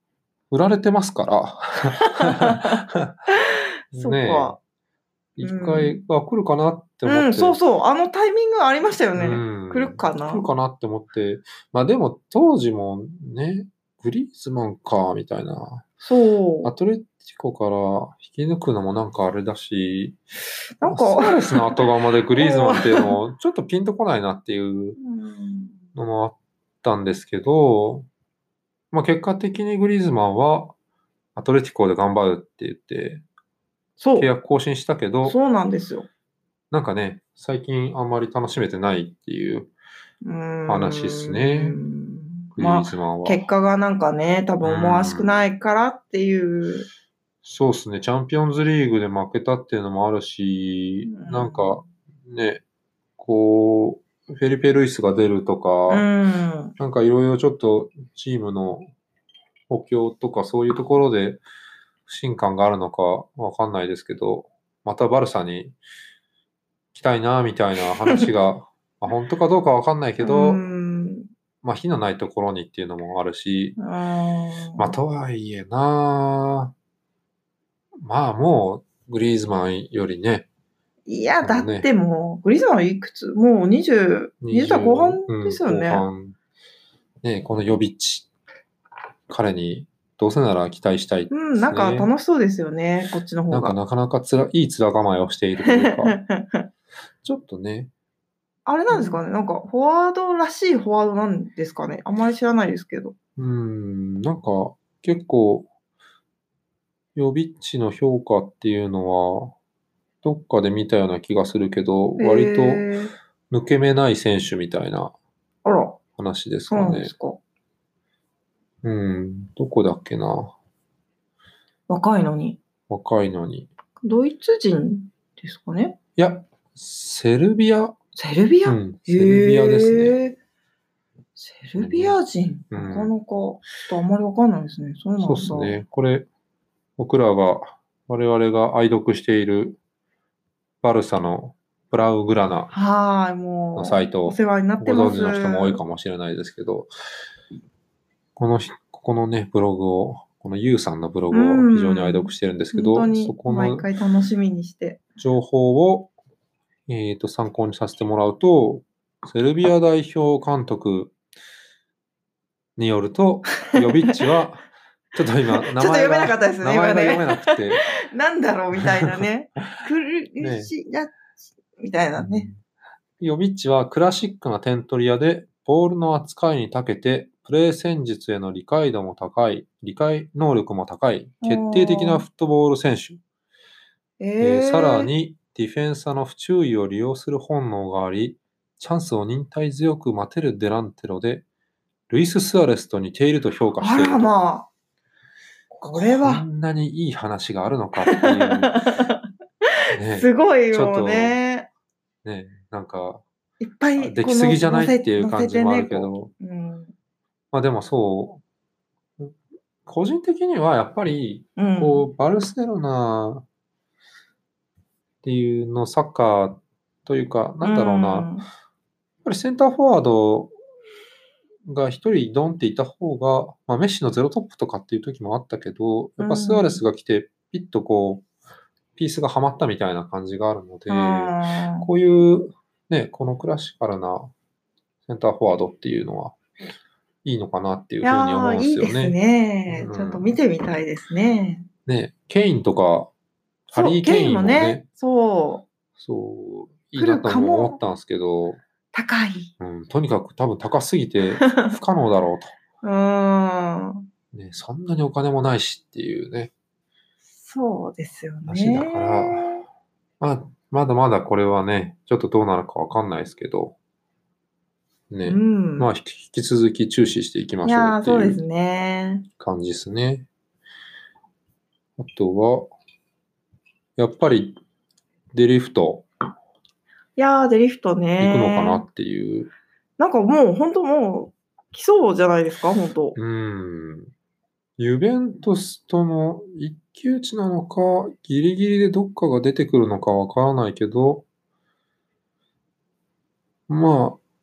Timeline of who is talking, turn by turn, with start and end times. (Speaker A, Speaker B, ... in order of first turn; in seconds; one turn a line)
Speaker A: 0.5-3.1
Speaker B: 2.0-4.6
Speaker A: 3.9-4.6
Speaker A: 5.4-7.6
Speaker B: 5.4-6.0
Speaker B: 7.0-10.5
Speaker A: 9.2-15.9
Speaker B: 16.0-16.7
Speaker A: 16.6-20.2
Speaker B: 20.8-23.2
Speaker A: 20.8-25.0
Speaker B: 25.0-25.8
Speaker A: 25.9-28.1
Speaker A: 28.9-30.7
Speaker A: 31.4-33.2
Speaker B: 34.0-34.3
Speaker A: 34.1-35.4
Speaker B: 35.2-36.1
Speaker A: 36.7-39.7
Speaker B: 40.2-46.9
Speaker A: 40.7-41.8
Speaker A: 42.6-43.5
Speaker A: 44.6-45.5
Speaker A: 47.4-52.6
Speaker B: 51.0-51.8
Speaker A: 53.2-56.1
Speaker B: 55.9-56.8
Speaker A: 56.8-58.9
Speaker A: 59.7-61.4
Speaker A: 62.1-65.8
Speaker A: 66.9-70.6
Speaker B: 70.2-71.3
Speaker A: 71.6-73.8
Speaker B: 73.8-75.0
Speaker A: 74.8-76.7
Speaker A: 78.0-80.5
Speaker B: 81.1-86.0
Speaker A: 81.4-81.9
Speaker A: 84.4-86.4
Speaker A: 87.2-88.3
Speaker A: 89.3-92.1
Speaker B: 91.3-93.8
Speaker A: 93.5-96.2
Speaker B: 95.6-96.7
Speaker A: 97.2-97.9
Speaker B: 98.7-103.1
Speaker A: 98.9-99.2
Speaker A: 103.4-105.7
Speaker A: 107.1-109.5
Speaker A: 110.2-112.9
Speaker B: 112.2-113.1
Speaker A: 113.5-115.1
Speaker B: 115.6-116.0
Speaker A: 116.2-117.1
Speaker B: 116.7-117.4
Speaker A: 118.8-120.5
Speaker B: 121.9-122.6
Speaker A: 122.9-123.7
Speaker B: 124.0-126.0
Speaker A: 126.2-128.0
Speaker B: 128.2-130.4
Speaker A: 128.7-130.2
Speaker B: 131.3-135.8
Speaker A: 131.8-132.2
Speaker A: 132.7-133.1
Speaker A: 135.2-136.3
Speaker A: 137.0-139.8
Speaker A: 140.8-142.7
Speaker B: 142.7-145.8
Speaker A: 143.8-146.9
Speaker A: 148.3-153.9
Speaker B: 151.3-155.0
Speaker A: 155.2-156.1
Speaker A: 156.9-161.2
Speaker A: 162.8-167.8
Speaker B: 163.6-164.2
Speaker B: 165.5-171.2
Speaker A: 168.8-169.2
Speaker A: 170.4-170.7
Speaker B: 171.8-172.5
Speaker A: 172.2-172.6
Speaker A: 173.2-183.2
Speaker B: 181.4-182.2
Speaker B: 184.2-185.1
Speaker A: 184.4-191.4
Speaker A: 192.1-194.3
Speaker B: 193.8-194.7
Speaker B: 195.7-196.4
Speaker A: 195.8-198.8
Speaker B: 198.0-199.2
Speaker A: 199.9-201.4
Speaker B: 200.0-201.7
Speaker A: 202.2-203.2
Speaker B: 203.6-206.9
Speaker A: 204.0-206.3
Speaker A: 207.5-208.4
Speaker A: 209.8-213.4
Speaker B: 211.6-212.1
Speaker A: 215.2-218.3
Speaker B: 217.6-218.5
Speaker A: 219.2-220.5
Speaker A: 221.7-228.2
Speaker B: 226.2-226.8
Speaker A: 229.0-234.3
Speaker B: 230.9-231.9
Speaker A: 235.1-236.3
Speaker A: 237.2-239.2
Speaker B: 238.0-241.7
Speaker A: 239.7-240.3
Speaker A: 241.8-243.1
Speaker A: 243.7-244.8
Speaker B: 243.7-245.7
Speaker A: 246.0-248.6
Speaker B: 247.0-247.8
Speaker B: 248.9-249.5
Speaker A: 249.6-252.6
Speaker B: 251.4-251.8
Speaker B: 252.8-254.1
Speaker A: 254.3-256.5
Speaker B: 257.4-259.6
Speaker A: 258.5-259.5
Speaker A: 260.2-263.8
Speaker A: 265.1-268.4
Speaker B: 265.2-265.9
Speaker B: 267.6-269.3
Speaker A: 269.4-270.3
Speaker A: 272.0-272.7
Speaker A: 274.0-274.6
Speaker A: 275.3-276.1
Speaker B: 277.2-278.9
Speaker A: 278.2-279.5
Speaker B: 280.0-283.2
Speaker A: 283.2-284.1
Speaker A: 284.8-291.2
Speaker A: 293.7-294.2